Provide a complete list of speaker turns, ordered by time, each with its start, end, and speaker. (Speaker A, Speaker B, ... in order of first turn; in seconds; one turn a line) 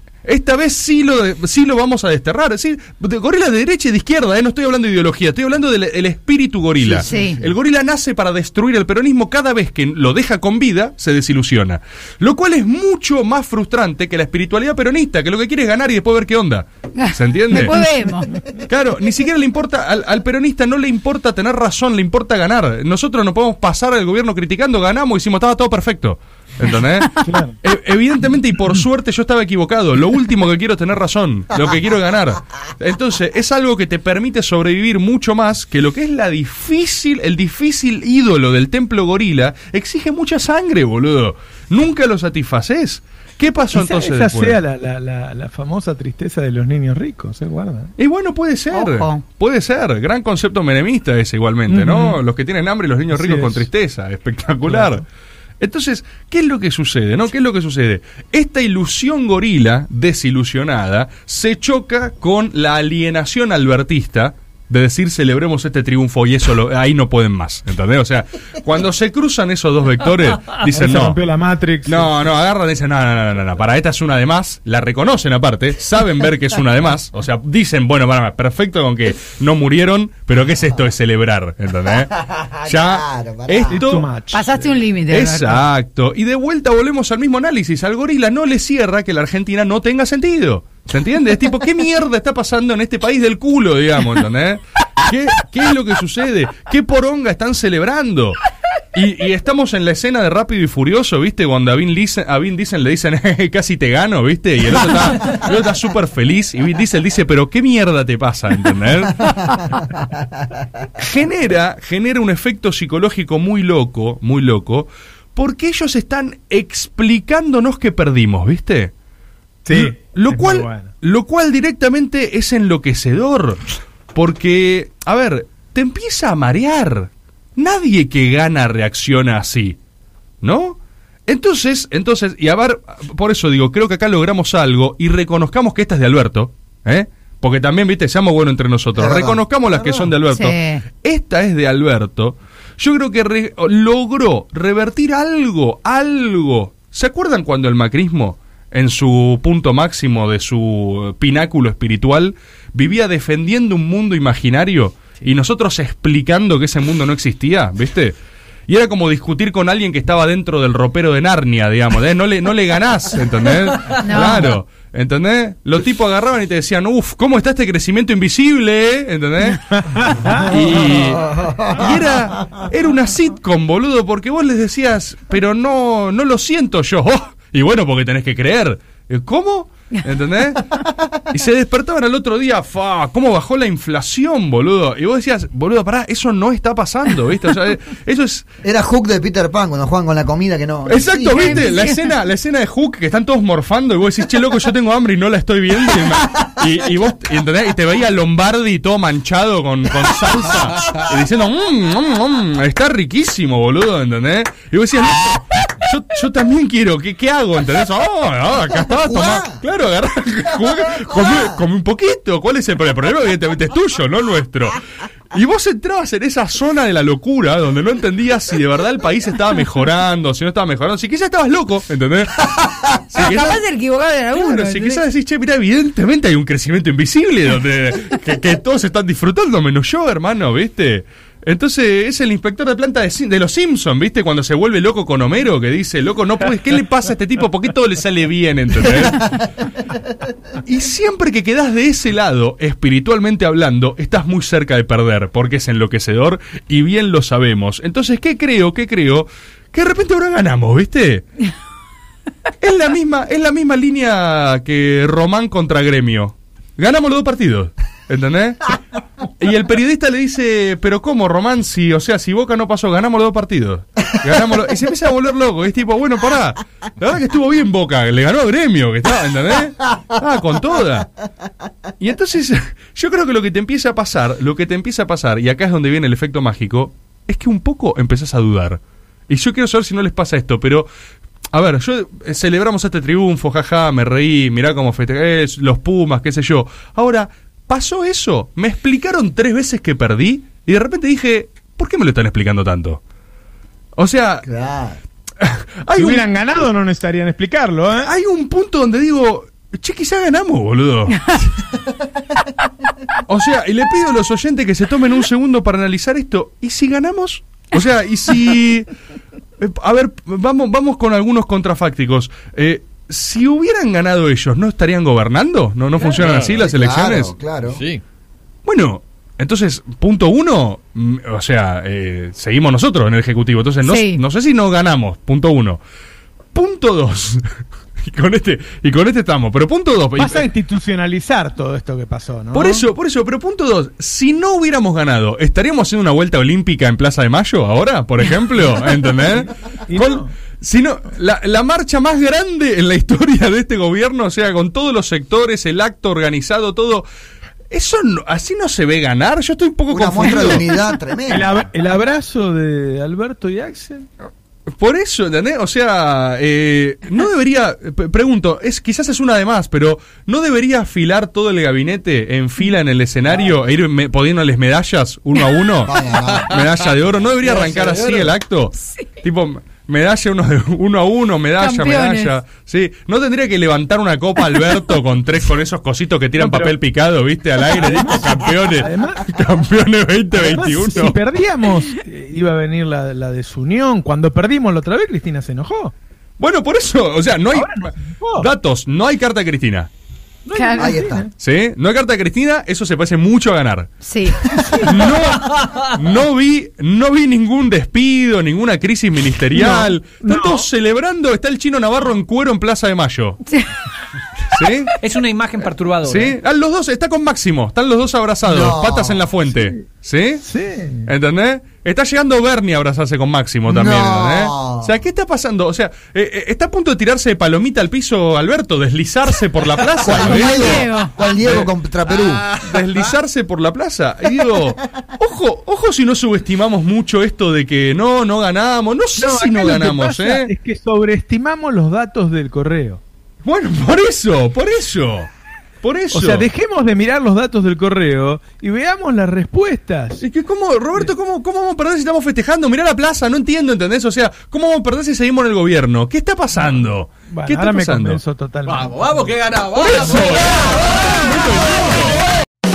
Speaker A: 0.2-17.8
Speaker B: 6.8-7.5
Speaker C: 7.0-7.4
Speaker C: 17.0-18.3
Speaker A: 18.6-44.6
Speaker D: 27.2-27.5
Speaker D: 43.7-47.9
Speaker A: 48.0-55.0
Speaker C: 48.7-49.2
Speaker D: 51.7-52.2
Speaker D: 53.1-53.7
Speaker D: 54.7-55.0
Speaker A: 55.6-71.2
Speaker D: 70.7-72.2
Speaker A: 71.8-84.1
Speaker B: 82.4-83.8
Speaker D: 83.7-84.8
Speaker C: 84.3-85.6
Speaker A: 85.1-98.4
Speaker A: 98.9-109.6
Speaker A: 111.0-118.9
Speaker D: 119.7-120.9
Speaker A: 119.7-123.6
Speaker A: 124.1-129.8
Speaker A: 130.4-158.2
Speaker B: 138.9-140.1
Speaker C: 140.1-140.8
Speaker A: 158.7-180.7
Speaker C: 163.9-164.6
Speaker D: 169.8-170.4
Speaker B: 171.3-171.8
Speaker A: 181.3-188.5
Speaker B: 188.6-191.7
Speaker A: 190.8-214.8
Speaker C: 191.3-192.1
Speaker B: 208.9-209.5
Speaker B: 211.0-211.4
Speaker A: 215.3-223.6
Speaker C: 223.2-225.0
Speaker A: 224.3-239.4
Speaker A: 240.6-251.2
Speaker A: 252.6-258.8
Speaker A: 259.4-271.1
Speaker A: 272.0-280.9
Speaker A: 281.5-293.0
Speaker A: 294.0-294.4
Speaker B: 294.4-295.0
Speaker A: 295.4-296.3
Speaker D: 295.9-298.1
Speaker A: 298.0-301.2
Speaker A: 303.3-308.9
Speaker A: 309.6-317.3
Speaker B: 316.0-317.8
Speaker E: 316.1-316.6
Speaker E: 317.7-318.0
Speaker A: 318.6-325.8
Speaker C: 323.8-324.2
Speaker A: 326.5-327.4
Speaker A: 328.1-330.4
Speaker D: 330.2-332.9
Speaker A: 332.5-347.0
Speaker D: 339.9-340.3
Speaker A: 347.7-350.6
Speaker B: 349.9-351.5
Speaker C: 350.3-350.6
Speaker D: 351.3-354.1
Speaker A: 354.8-381.1
Speaker B: 365.8-366.5
Speaker E: 366.1-366.4
Speaker E: 367.4-368.3
Speaker C: 371.6-372.4
Speaker D: 376.4-376.8
Speaker D: 377.7-379.2
Speaker D: 380.3-385.9
Speaker A: 386.4-389.9
Speaker D: 387.5-388.5
Speaker D: 390.4-391.3
Speaker C: 390.5-391.0
Speaker B: 390.8-391.3
Speaker A: 391.4-393.9
Speaker C: 394.0-394.4
Speaker D: 394.4-395.1
Speaker A: 394.8-403.4
Speaker D: 399.5-400.6
Speaker C: 403.5-403.8
Speaker A: 404.5-404.9
Speaker E: 405.0-406.4
Speaker A: 406.1-410.4
Speaker B: 408.4-409.2
Speaker D: 410.4-411.1
Speaker A: 411.1-421.7
Speaker B: 413.7-415.0
Speaker B: 420.0-422.5
Speaker C: 420.2-421.1
Speaker A: 422.5-430.5
Speaker D: 429.2-433.0
Speaker A: 433.4-435.3
Speaker A: 435.8-436.4
Speaker D: 436.1-440.2
Speaker A: 440.2-448.2
Speaker D: 446.6-449.4
Speaker E: 448.7-450.6
Speaker A: 449.8-452.1
Speaker D: 449.9-450.3